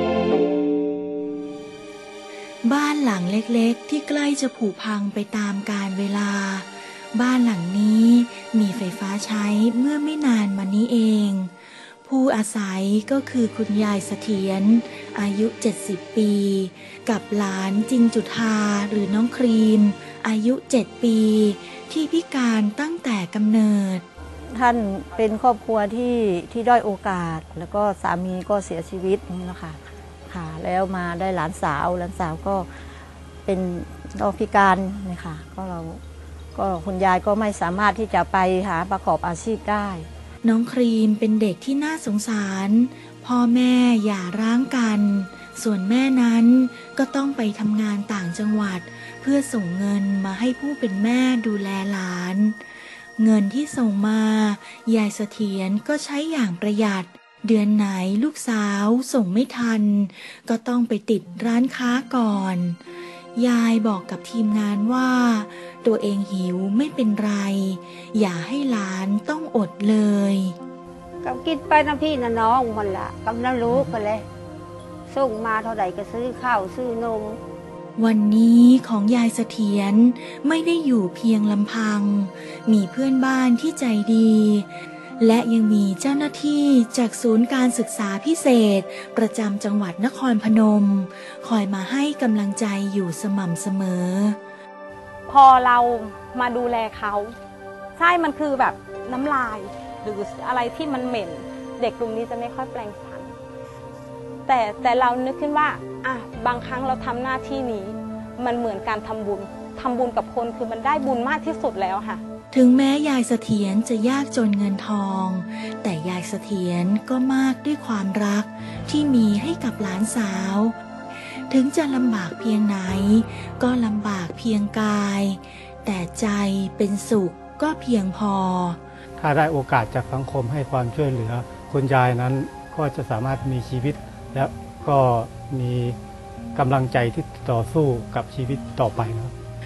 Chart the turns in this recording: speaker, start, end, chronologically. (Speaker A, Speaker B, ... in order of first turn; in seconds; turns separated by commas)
Speaker A: 2.6-24.1, Speaker B: 24.5-32.7, Speaker B: 33.4-36.0, Speaker B: 36.5-40.1, Speaker A: 40.4-52.6, Speaker A: 53.2-62.8, Speaker A: 63.4-70.5, Speaker C: 71.2-74.2, Speaker C: 75.1-77.4, Speaker A: 78.0-94.4, Speaker D: 95.3-97.3, Speaker D: 98.0-103.3, Speaker D: 104.5-112.2, Speaker A: 112.5-120.8, Speaker A: 121.5-128.8, Speaker E: 129.2-136.0, Speaker E: 136.5-139.3